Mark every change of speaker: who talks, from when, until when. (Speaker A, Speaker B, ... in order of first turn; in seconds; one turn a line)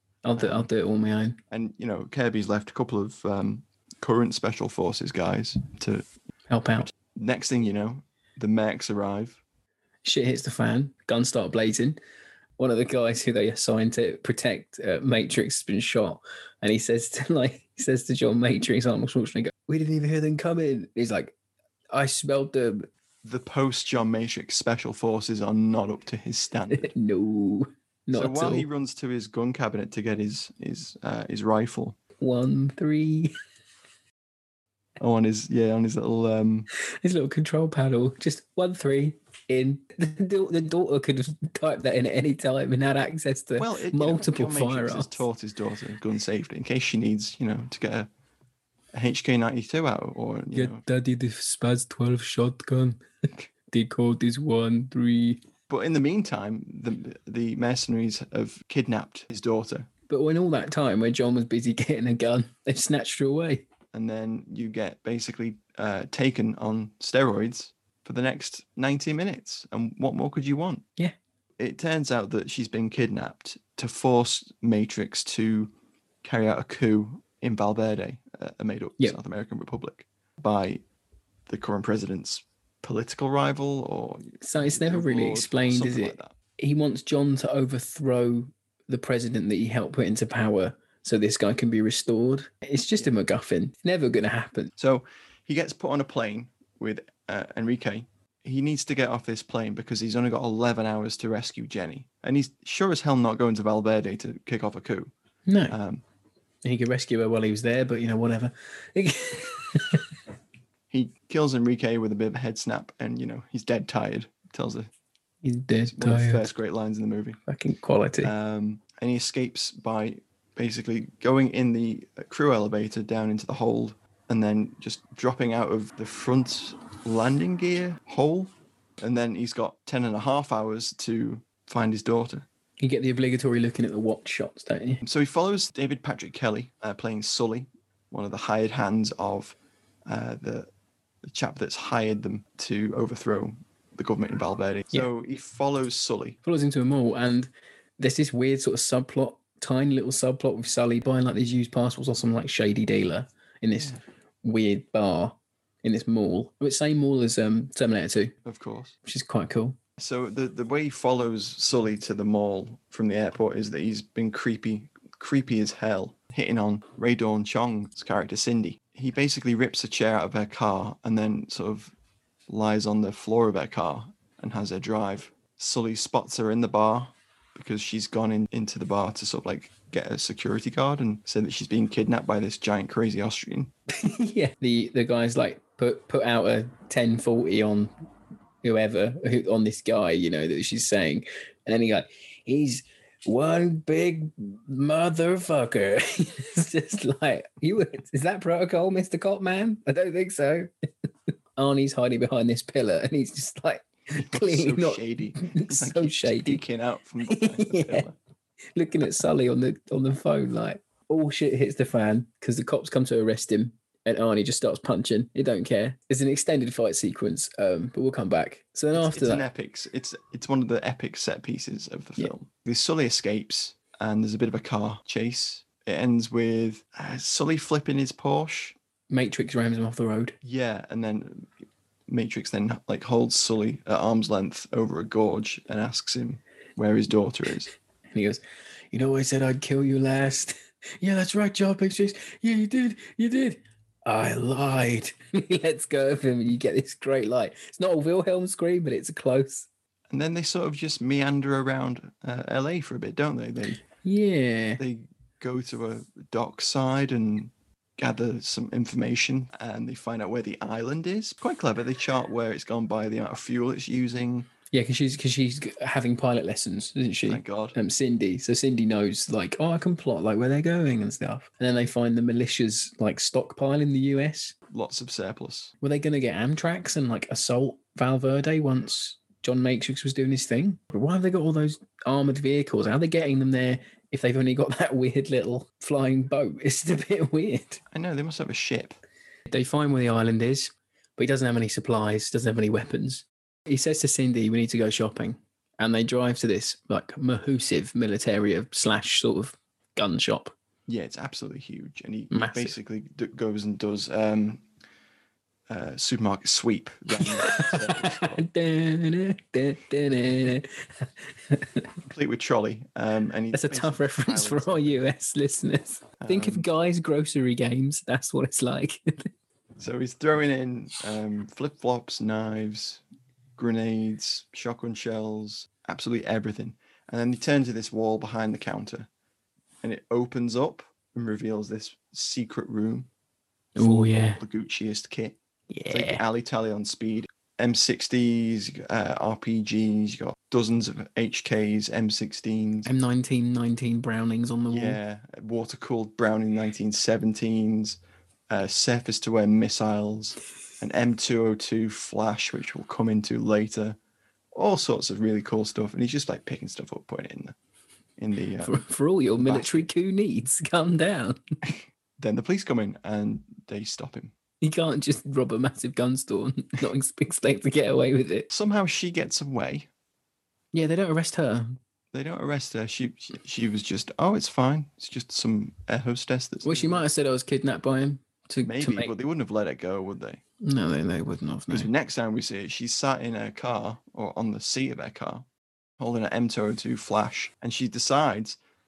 Speaker A: 0.2-1.4
Speaker B: 0.4-0.7
Speaker B: 1.5-6.1
Speaker A: 6.5-6.9
Speaker B: 7.0-9.4
Speaker A: 10.1-12.0
Speaker A: 12.6-21.3
Speaker A: 21.9-22.9
Speaker B: 23.2-26.9
Speaker A: 26.7-28.7
Speaker B: 28.1-32.0
Speaker A: 32.2-33.3
Speaker B: 35.0-36.7
Speaker A: 36.8-45.2
Speaker B: 43.6-48.1
Speaker B: 48.9-50.8
Speaker A: 50.5-53.0
Speaker A: 53.7-55.4
Speaker B: 55.7-59.9
Speaker A: 60.1-63.7
Speaker B: 63.9-70.9
Speaker B: 71.6-75.7
Speaker B: 76.2-80.8
Speaker B: 81.5-86.3
Speaker A: 84.4-94.7
Speaker B: 94.8-105.1
Speaker A: 105.5-105.8
Speaker B: 105.7-106.0
Speaker A: 106.6-110.0
Speaker B: 110.9-114.9
Speaker A: 115.4-116.5
Speaker B: 115.9-117.4
Speaker A: 117.5-118.3
Speaker B: 118.2-132.5
Speaker A: 132.8-135.0
Speaker B: 135.0-139.6
Speaker B: 140.1-140.7
Speaker B: 141.2-146.4
Speaker A: 146.4-158.3
Speaker B: 153.7-154.0
Speaker B: 158.4-158.9
Speaker A: 159.1-159.8
Speaker B: 160.0-171.9
Speaker B: 172.5-183.7
Speaker A: 183.9-187.9
Speaker A: 188.6-200.7
Speaker A: 201.6-206.6
Speaker B: 204.2-208.2
Speaker A: 207.3-208.1
Speaker A: 208.8-219.4
Speaker B: 218.9-228.8
Speaker A: 229.1-230.4
Speaker B: 230.4-231.5
Speaker B: 232.1-237.7
Speaker A: 238.1-249.7
Speaker B: 250.1-253.8
Speaker A: 254.0-254.8
Speaker B: 254.8-264.5
Speaker A: 264.7-274.6
Speaker B: 267.3-267.8
Speaker B: 274.7-275.7
Speaker A: 275.8-287.8
Speaker B: 287.9-289.0
Speaker A: 289.5-300.5
Speaker B: 300.9-304.6
Speaker A: 302.3-302.7
Speaker B: 305.7-308.4
Speaker A: 307.2-311.9
Speaker B: 312.1-314.9
Speaker A: 313.5-319.3
Speaker B: 316.2-316.7
Speaker B: 319.8-323.0
Speaker B: 323.6-329.1
Speaker B: 329.8-333.1
Speaker B: 333.8-335.4
Speaker A: 333.8-334.4
Speaker A: 335.7-336.2
Speaker B: 335.9-342.9
Speaker A: 342.9-345.0
Speaker B: 344.7-354.0
Speaker B: 354.5-357.6
Speaker B: 358.2-358.9
Speaker A: 358.6-361.4
Speaker B: 359.4-359.9
Speaker B: 361.6-364.3
Speaker A: 364.6-368.5
Speaker B: 368.5-369.9
Speaker A: 370.7-371.8
Speaker B: 372.1-377.1
Speaker A: 376.6-379.1
Speaker B: 378.6-380.4
Speaker A: 380.6-381.9
Speaker B: 381.7-385.4
Speaker B: 386.0-388.6